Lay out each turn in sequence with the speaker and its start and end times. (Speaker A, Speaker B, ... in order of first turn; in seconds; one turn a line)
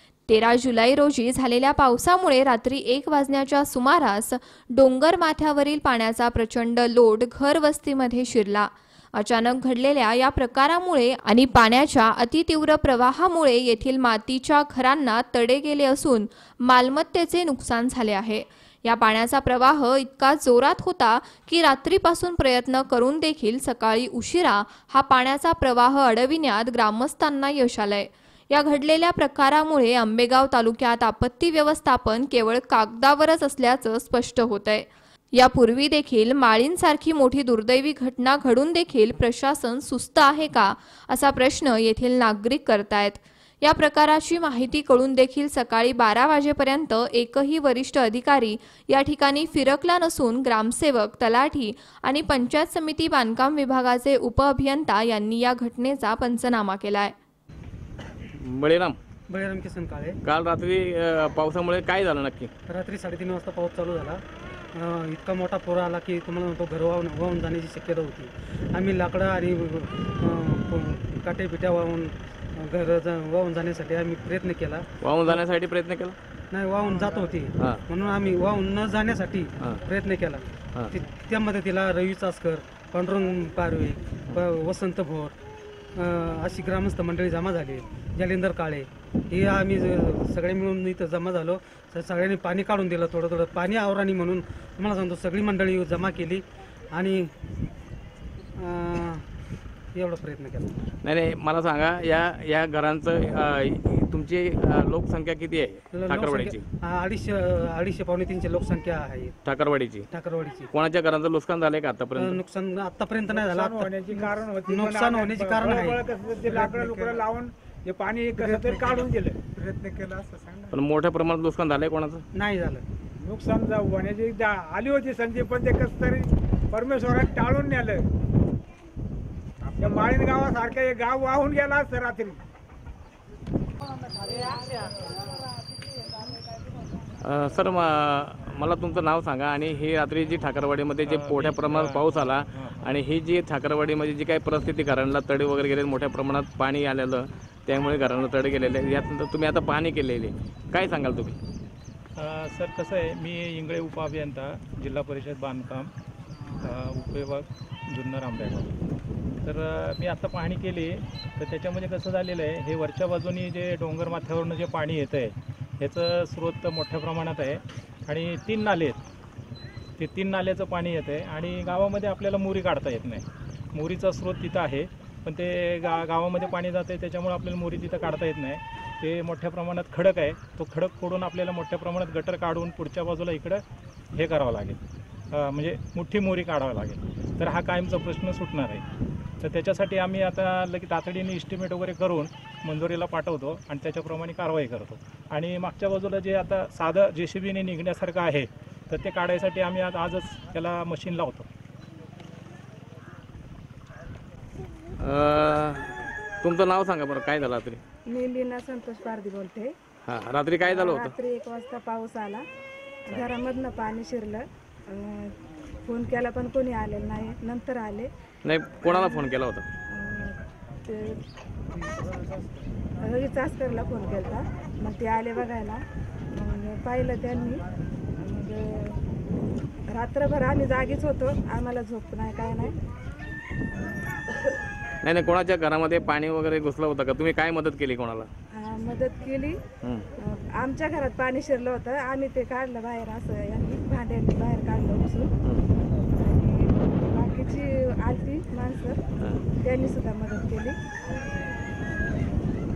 Speaker A: 0.3-57.1
Speaker B: 58.4-59.0
Speaker C: 59.3-60.2
Speaker B: 60.2-62.5
Speaker C: 62.7-64.2
Speaker C: 64.7-75.4
Speaker B: 75.0-76.2
Speaker C: 76.5-85.3
Speaker C: 86.0-97.3
Speaker C: 98.6-99.3
Speaker C: 99.9-100.7
Speaker B: 101.0-106.6
Speaker C: 105.9-109.3
Speaker B: 109.4-110.1
Speaker C: 110.1-110.7
Speaker B: 110.7-112.4
Speaker C: 112.2-117.2
Speaker D: 113.2-120.6
Speaker C: 118.3-119.1
Speaker B: 120.7-122.2
Speaker C: 122.3-122.8
Speaker D: 123.2-128.1
Speaker D: 129.8-132.4
Speaker B: 137.2-151.4
Speaker E: 141.0-142.8
Speaker E: 152.2-155.9
Speaker E: 156.6-158.7
Speaker E: 159.4-169.0
Speaker E: 170.0-183.6
Speaker E: 184.1-184.8
Speaker E: 185.3-188.8
Speaker E: 189.4-201.5
Speaker B: 205.0-205.8
Speaker B: 206.4-207.8
Speaker F: 208.1-209.7
Speaker B: 210.0-211.1
Speaker F: 210.7-212.4
Speaker F: 213.1-215.3
Speaker F: 215.9-218.1
Speaker B: 218.4-219.6
Speaker F: 218.9-219.3
Speaker F: 219.9-221.2
Speaker F: 223.0-225.8
Speaker F: 226.3-227.6
Speaker F: 228.2-229.0
Speaker F: 229.9-232.8
Speaker F: 233.7-234.2
Speaker B: 235.0-238.3
Speaker F: 238.5-239.6
Speaker F: 240.2-245.3
Speaker F: 246.2-249.0
Speaker F: 249.6-250.8